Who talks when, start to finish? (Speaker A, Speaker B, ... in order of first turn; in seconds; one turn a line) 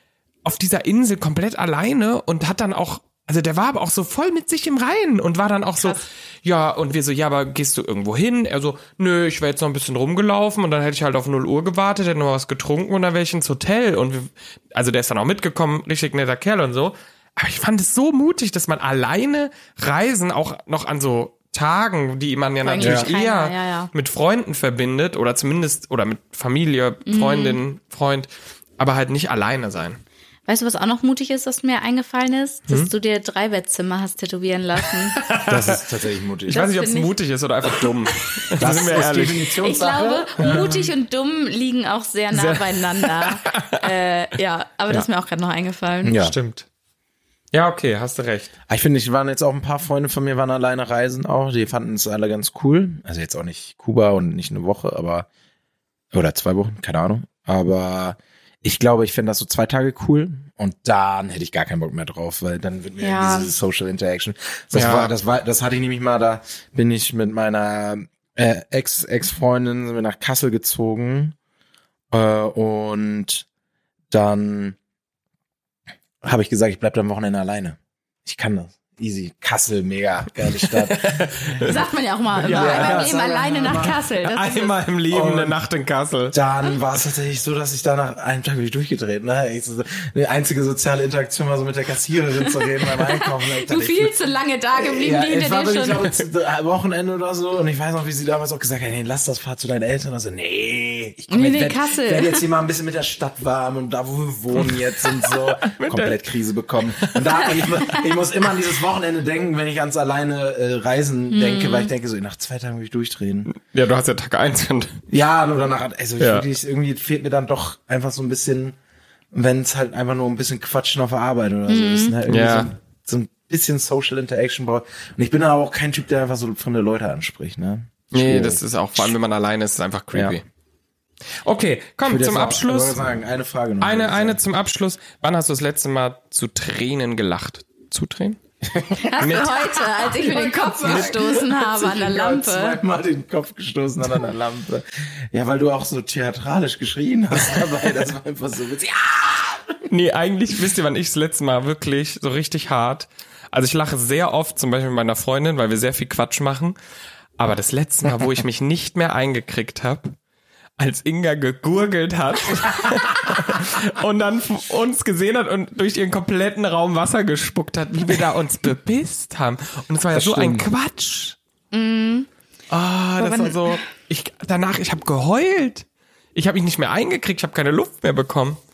Speaker A: 0.4-30.0
Speaker B: 22.6-23.9
Speaker C: 22.8-23.1
Speaker B: 27.1-27.6
Speaker B: 30.5-35.2
Speaker A: 35.1-35.8
Speaker C: 35.4-36.7
Speaker B: 36.5-37.1
Speaker A: 36.5-39.4
Speaker C: 38.6-40.9
Speaker B: 39.0-46.2
Speaker A: 42.3-43.8
Speaker C: 46.0-46.4
Speaker A: 46.2-46.6
Speaker A: 47.5-48.5
Speaker C: 48.7-55.3
Speaker C: 56.1-71.3
Speaker B: 63.0-63.5
Speaker A: 64.7-65.1
Speaker C: 72.1-73.5
Speaker C: 74.1-74.8
Speaker C: 76.2-81.8
Speaker A: 80.5-81.8
Speaker B: 81.6-84.8
Speaker C: 82.3-84.0
Speaker A: 82.4-83.1
Speaker A: 84.2-86.3
Speaker C: 85.1-85.6
Speaker C: 86.3-94.2
Speaker B: 92.5-96.1
Speaker C: 94.8-113.5
Speaker B: 101.3-102.4
Speaker A: 104.5-106.2
Speaker A: 107.0-108.0
Speaker B: 111.3-111.9
Speaker A: 113.5-115.0
Speaker C: 115.1-118.8
Speaker A: 116.2-116.5
Speaker C: 119.3-129.1
Speaker B: 121.7-122.1
Speaker A: 122.3-122.7
Speaker A: 128.1-130.4
Speaker A: 131.4-133.0
Speaker C: 132.1-134.4
Speaker A: 133.8-138.4
Speaker C: 138.7-149.7
Speaker B: 139.0-142.8
Speaker A: 139.2-139.6
Speaker A: 140.8-141.1
Speaker A: 149.9-156.8
Speaker A: 157.4-160.2
Speaker A: 160.8-171.4
Speaker C: 170.1-170.7
Speaker B: 171.7-172.3
Speaker A: 172.7-178.6
Speaker B: 173.2-173.8